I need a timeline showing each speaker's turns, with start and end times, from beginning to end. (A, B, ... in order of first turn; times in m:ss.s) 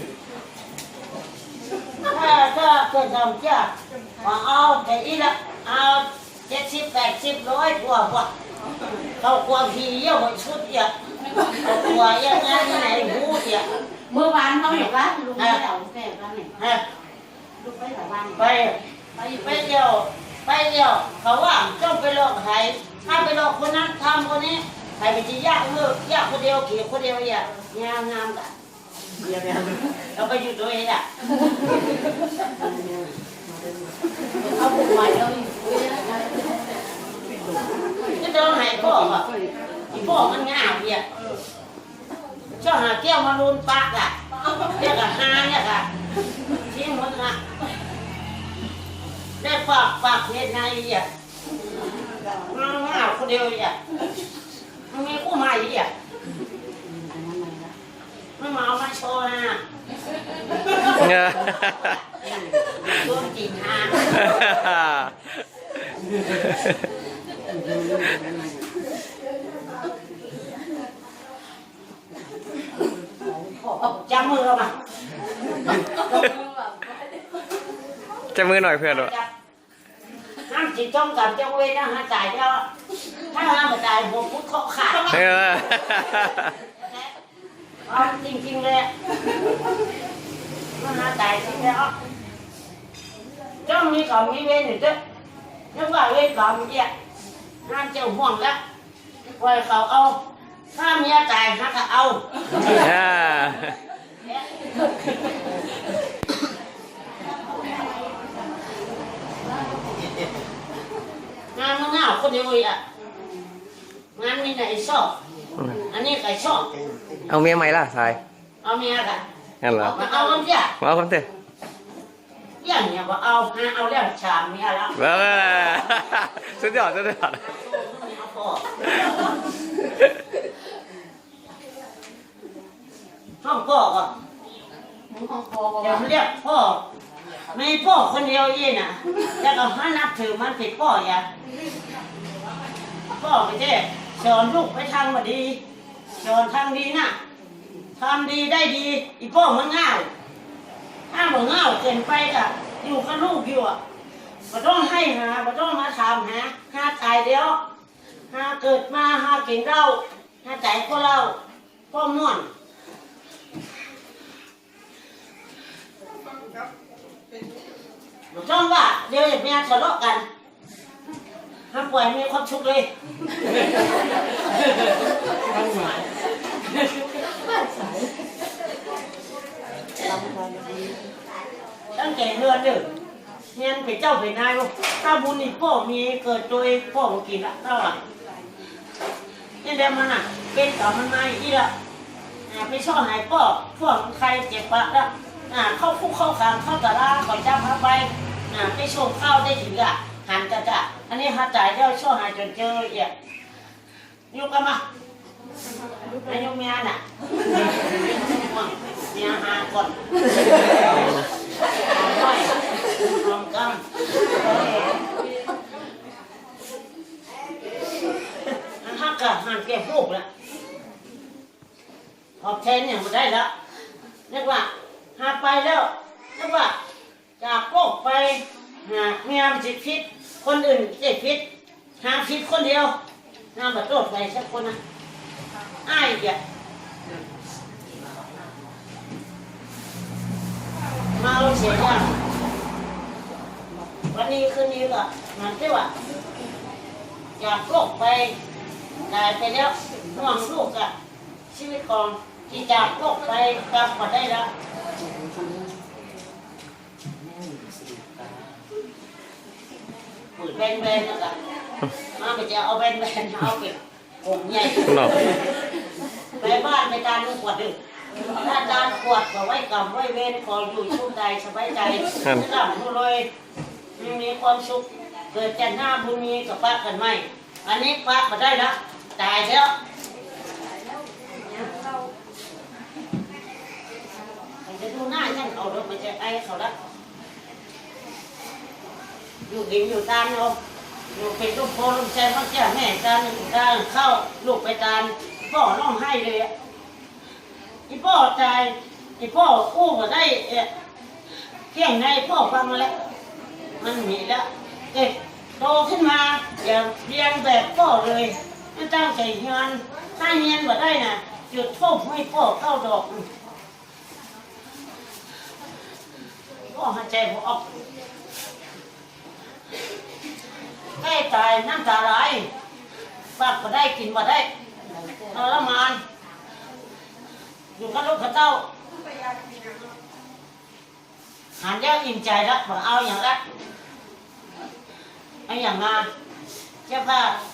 0:02.1-0:08.3 A
0:09.2-0:10.9 A
0:11.3-0:11.6 B
0:11.5-0:13.7 A
0:14.1-0:16.6 B
0:15.4-0:15.6 A
0:17.6-0:18.5 B
0:18.3-0:18.8 A
0:19.2-0:19.7 B
0:19.4-0:28.5 A
0:29.2-0:31.0 A
0:32.5-0:36.6 B
0:38.2-0:39.3 A
0:38.7-0:40.3 B
0:39.9-0:41.0 A
0:42.6-0:44.1 A
0:44.7-0:45.9 A
0:46.6-0:47.4 A
0:49.4-0:51.1 A
0:51.6-0:52.7 B
0:52.5-0:53.8 A
0:54.9-0:55.9 A
0:56.8-0:57.7 B
0:58.4-0:59.6 A
1:00.8-1:02.0 C
1:02.2-1:03.2 B
1:02.8-1:04.4 A
1:04.2-1:05.2 C
1:06.4-1:06.7 C
1:07.5-1:08.6 B
1:13.2-1:14.0 B
1:13.9-1:14.7 A
1:15.6-1:16.3 B
1:18.3-1:19.1 C
1:18.8-1:19.3 A
1:20.5-1:22.6 A
1:23.3-1:25.3 A
1:25.1-1:26.6 C
1:27.9-1:28.9 A
1:30.8-1:31.9 A
1:33.6-1:35.0 A
1:35.7-1:36.9 A
1:37.7-1:38.6 A
1:39.4-1:40.2 A
1:40.8-1:42.8 A
1:42.7-1:43.7 C
1:51.6-1:52.8 A
1:54.2-1:55.1 A
1:55.9-1:56.7 A
1:57.3-1:58.2 C
1:58.6-1:59.2 A
1:59.6-2:00.0 C
1:59.8-2:00.4 B
1:59.8-2:00.7 A
2:00.8-2:01.3 C
2:02.6-2:04.9 A
2:05.0-2:07.5 C
2:07.7-2:09.0 A
2:13.4-2:14.1 A
2:15.1-2:16.0 B
2:15.8-2:16.8 A
2:17.5-2:21.2 A
2:23.1-2:25.6 A
2:26.2-2:27.2 A
2:28.0-2:30.1 A
2:31.1-2:33.8 A
2:34.5-2:37.6 A
2:38.3-2:41.4 A
2:41.9-2:42.5 A
2:48.3-2:50.2 A
2:51.7-2:52.9 A
2:55.5-2:56.1 B
2:56.6-2:58.1 B
3:00.0-3:01.0 B
3:02.0-3:02.9 A
3:03.6-3:08.0 A
3:09.6-3:11.7 A
3:12.5-3:23.1 A
3:24.3-3:24.8 A
3:26.2-3:30.0 A
3:30.6-3:31.2 A
3:31.9-3:32.5 A
3:33.1-3:35.0 A
3:38.8-3:40.2 A
3:42.4-3:43.5 A
3:44.3-3:46.8 A
3:47.4-3:51.4 A
3:52.0-3:52.9 A
3:53.6-3:54.8 A
3:55.9-3:56.4 A
4:01.2-4:02.1 A
4:04.1-4:05.9 A
4:07.4-4:08.4 A
4:09.1-4:10.9 A
4:11.5-4:14.5 A
4:15.1-4:15.7 B
4:20.4-4:21.4 A
4:22.2-4:25.4 A
4:24.9-4:25.2 C
4:26.4-4:33.3 A
4:34.0-4:39.7 A
4:44.6-4:46.7 A
4:49.5-4:50.6 A
4:51.1-4:56.5 A
4:57.9-5:00.7 A
5:01.7-5:02.9 A
5:03.8-5:13.3 A
5:16.7-5:17.7 A
5:21.0-5:22.5 A
5:23.4-5:24.5 A
5:24.9-5:25.6 B
5:25.3-5:26.0 A
5:27.8-5:28.6 A
5:31.6-5:33.4 A
5:35.5-5:36.1 A
5:36.9-5:37.4 A